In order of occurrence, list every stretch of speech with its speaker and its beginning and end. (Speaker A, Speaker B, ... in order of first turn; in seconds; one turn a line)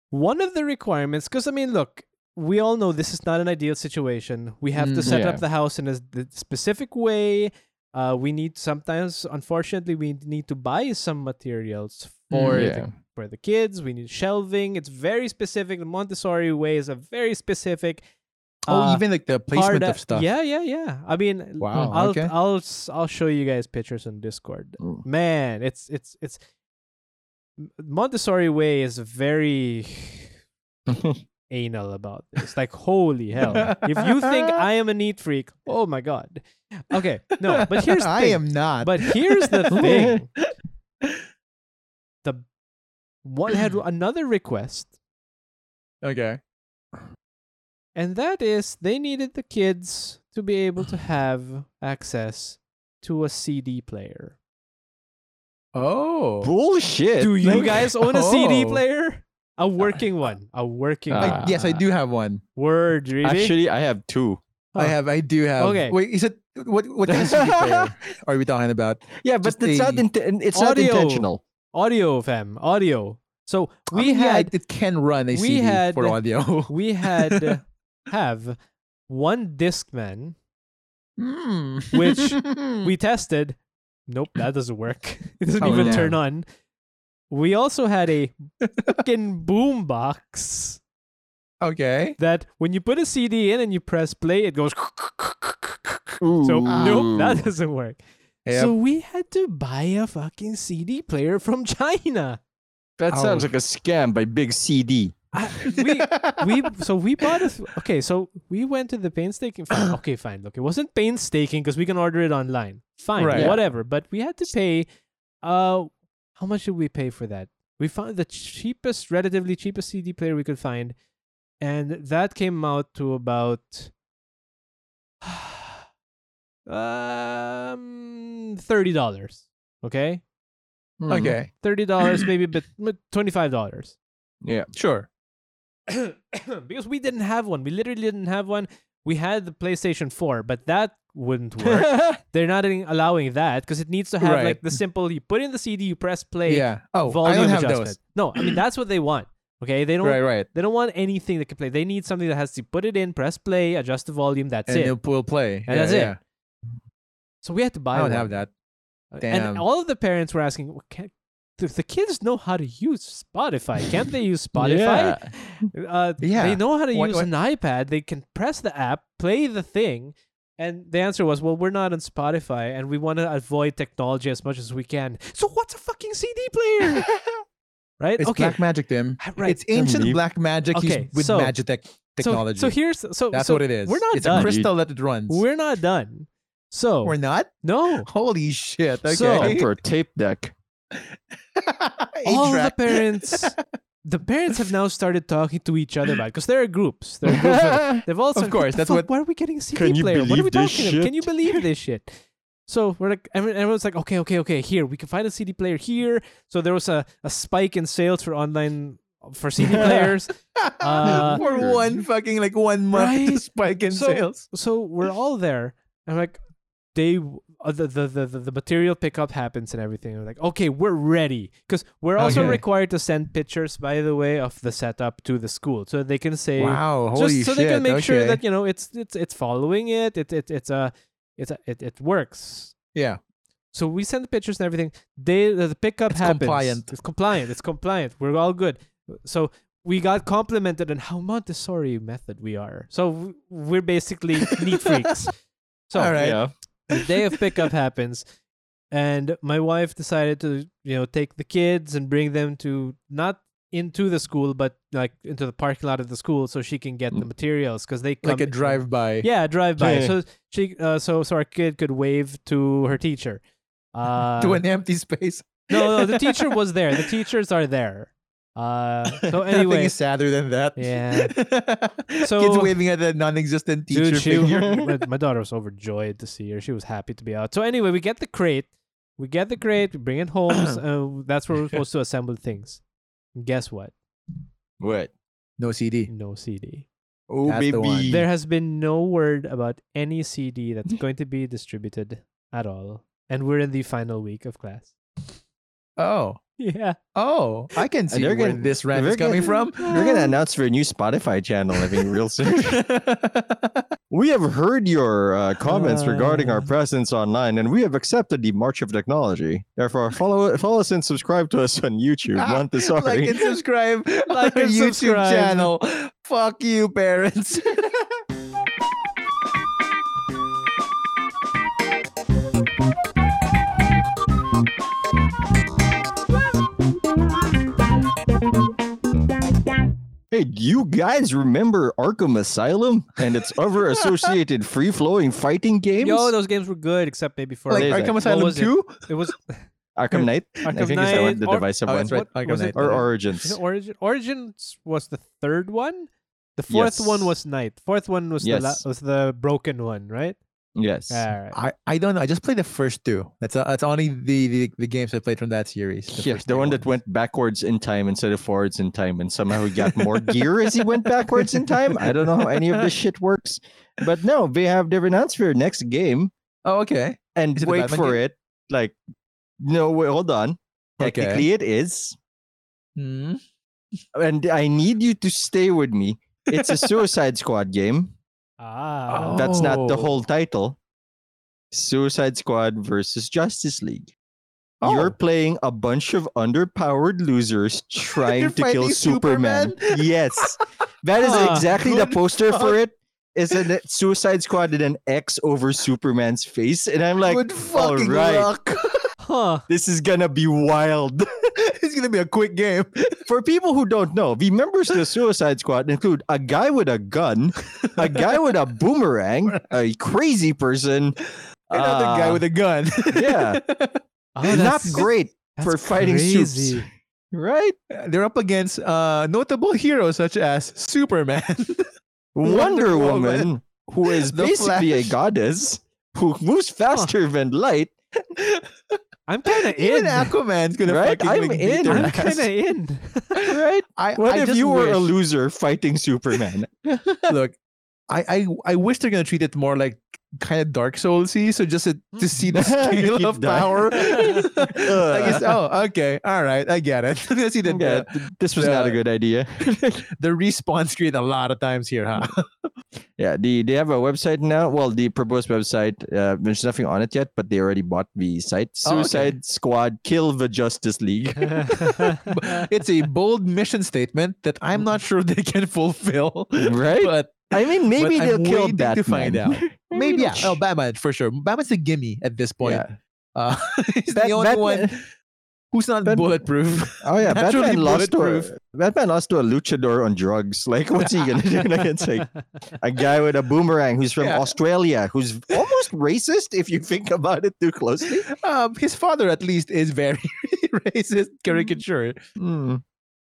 Speaker A: 0.1-18.0
Speaker B: 4.8-5.2
Speaker C: 5.0-5.4
Speaker B: 12.3-12.7
Speaker C: 12.5-12.9
Speaker A: 18.7-26.4
Speaker B: 18.7-20.3
Speaker B: 21.6-22.3
Speaker A: 27.6-30.3
Speaker C: 30.9-31.2
Speaker A: 31.5-40.3
Speaker B: 33.5-34.6
Speaker B: 37.6-40.2
Speaker C: 39.7-40.2
Speaker A: 43.2-44.9
Speaker B: 46.0-46.4
Speaker A: 48.0-54.4
Speaker B: 55.8-56.5
Speaker C: 56.4-57.9
Speaker A: 57.2-61.8
Speaker B: 57.5-58.8
Speaker C: 61.1-61.5
Speaker B: 61.2-62.4
Speaker A: 62.6-63.5
Speaker C: 63.2-64.4
Speaker B: 64.8-70.0
Speaker A: 65.6-66.0
Speaker C: 67.1-67.9
Speaker C: 69.2-71.4
Speaker A: 70.5-74.5
Speaker B: 73.9-77.6
Speaker A: 75.3-78.6
Speaker A: 79.1-80.4
Speaker B: 81.2-82.9
Speaker A: 81.9-86.5
Speaker B: 85.6-86.2
Speaker C: 85.6-86.1
Speaker A: 87.3-90.8
Speaker B: 88.7-88.9
Speaker B: 91.6-92.2
Speaker A: 92.2-102.4
Speaker C: 96.2-97.4
Speaker B: 96.7-97.1
Speaker B: 98.5-98.7
Speaker C: 103.0-105.2
Speaker B: 103.1-103.5
Speaker A: 105.3-114.9
Speaker B: 105.7-106.7
Speaker B: 113.2-113.6
Speaker C: 113.3-113.6
Speaker A: 115.4-121.0
Speaker A: 121.6-123.9
Speaker A: 125.2-125.8
Speaker A: 126.7-130.2
Speaker C: 131.0-131.4
Speaker B: 131.1-131.5
Speaker A: 131.6-134.0
Speaker C: 134.4-134.7
Speaker B: 134.7-135.1
Speaker A: 135.9-155.0
Speaker C: 141.6-142.2
Speaker B: 144.2-144.8
Speaker B: 146.5-148.0
Speaker B: 150.0-150.5
Speaker B: 154.7-156.2
Speaker A: 155.7-156.2
Speaker A: 157.4-158.3
Speaker B: 157.9-158.5
Speaker A: 159.1-177.1
Speaker B: 159.2-159.7
Speaker C: 164.6-165.3
Speaker B: 166.2-167.3
Speaker C: 177.0-177.3
Speaker A: 178.0-178.6
Speaker B: 178.2-182.8
Speaker A: 179.2-179.6
Speaker C: 179.8-180.2
Speaker A: 180.7-181.6
Speaker A: 182.2-184.6
Speaker B: 183.3-185.4
Speaker C: 184.3-184.7
Speaker A: 185.3-188.1
Speaker B: 187.0-189.7
Speaker A: 189.1-189.6
Speaker C: 189.4-190.5
Speaker B: 191.6-193.6
Speaker A: 192.2-202.1
Speaker C: 197.3-198.0
Speaker B: 198.3-199.1
Speaker C: 199.8-201.6
Speaker A: 202.7-211.4
Speaker C: 209.7-210.1
Speaker B: 210.6-214.5
Speaker C: 211.0-212.0
Speaker A: 212.9-216.4
Speaker A: 216.9-232.8
Speaker B: 222.2-222.6
Speaker B: 226.6-228.4
Speaker A: 233.7-245.3
Speaker B: 236.1-236.9
Speaker A: 245.9-246.4
Speaker B: 245.9-246.4
Speaker C: 246.2-246.5
Speaker A: 246.9-248.2
Speaker A: 248.9-264.6
Speaker B: 258.2-259.3
Speaker C: 259.8-260.1
Speaker B: 264.4-267.1
Speaker A: 265.7-270.0
Speaker B: 269.5-274.8
Speaker A: 270.8-271.4
Speaker A: 272.2-272.8
Speaker A: 273.9-282.8
Speaker C: 274.3-274.9
Speaker A: 283.4-283.9
Speaker C: 284.8-285.1
Speaker B: 285.6-286.1
Speaker A: 286.1-286.9
Speaker C: 287.3-288.2
Speaker B: 287.4-288.2
Speaker A: 288.1-295.3
Speaker B: 296.0-296.4
Speaker A: 296.6-297.0
Speaker B: 297.1-300.1
Speaker C: 298.1-302.8
Speaker A: 299.4-300.3
Speaker B: 302.5-303.9
Speaker C: 304.1-313.5
Speaker A: 305.7-306.7
Speaker B: 312.4-318.1
Speaker A: 314.3-315.7
Speaker C: 330.3-336.3
Speaker A: 336.0-339.6
Speaker B: 337.7-339.1
Speaker C: 337.7-338.1
Speaker C: 340.0-342.2
Speaker A: 340.6-350.4
Speaker B: 341.9-343.0
Speaker C: 342.7-343.6
Speaker C: 346.7-347.3
Speaker C: 348.4-348.8
Speaker C: 350.8-351.3
Speaker A: 351.1-351.6
Speaker B: 351.5-356.9
Speaker C: 356.1-366.3
Speaker B: 359.8-362.9
Speaker B: 366.6-368.2
Speaker C: 367.4-369.0
Speaker C: 369.6-372.2
Speaker B: 371.0-371.5
Speaker B: 373.0-373.4
Speaker C: 374.1-378.1
Speaker B: 376.5-376.9
Speaker A: 378.6-379.6
Speaker B: 379.1-380.2
Speaker C: 379.4-380.8
Speaker C: 381.7-384.1
Speaker B: 384.8-385.2
Speaker C: 384.8-398.5
Speaker B: 388.1-390.5
Speaker A: 391.2-391.7
Speaker B: 391.2-392.8
Speaker B: 397.2-399.1
Speaker A: 399.2-399.6
Speaker C: 399.7-401.4
Speaker B: 401.6-403.3
Speaker C: 403.3-412.4
Speaker B: 408.0-408.2
Speaker B: 411.7-415.1
Speaker C: 413.1-413.6
Speaker A: 414.4-416.9
Speaker C: 414.5-417.8
Speaker B: 417.9-421.9
Speaker C: 422.4-427.9
Speaker B: 422.4-423.5
Speaker B: 424.1-425.1
Speaker B: 428.5-429.0
Speaker A: 429.3-430.3
Speaker B: 429.5-432.5
Speaker C: 430.9-432.2
Speaker A: 431.9-433.5
Speaker B: 433.4-435.1
Speaker C: 433.5-437.2
Speaker B: 437.3-437.6
Speaker B: 438.1-449.0
Speaker C: 442.5-445.5
Speaker C: 447.7-450.0
Speaker B: 450.2-452.7
Speaker C: 453.2-462.2
Speaker B: 458.8-459.4
Speaker B: 462.2-474.9
Speaker C: 466.6-470.6
Speaker C: 472.6-473.0
Speaker C: 474.1-475.0
Speaker B: 475.7-478.5
Speaker C: 476.1-476.3
Speaker C: 477.0-488.3
Speaker B: 484.2-484.6
Speaker B: 488.1-492.2
Speaker C: 492.4-492.8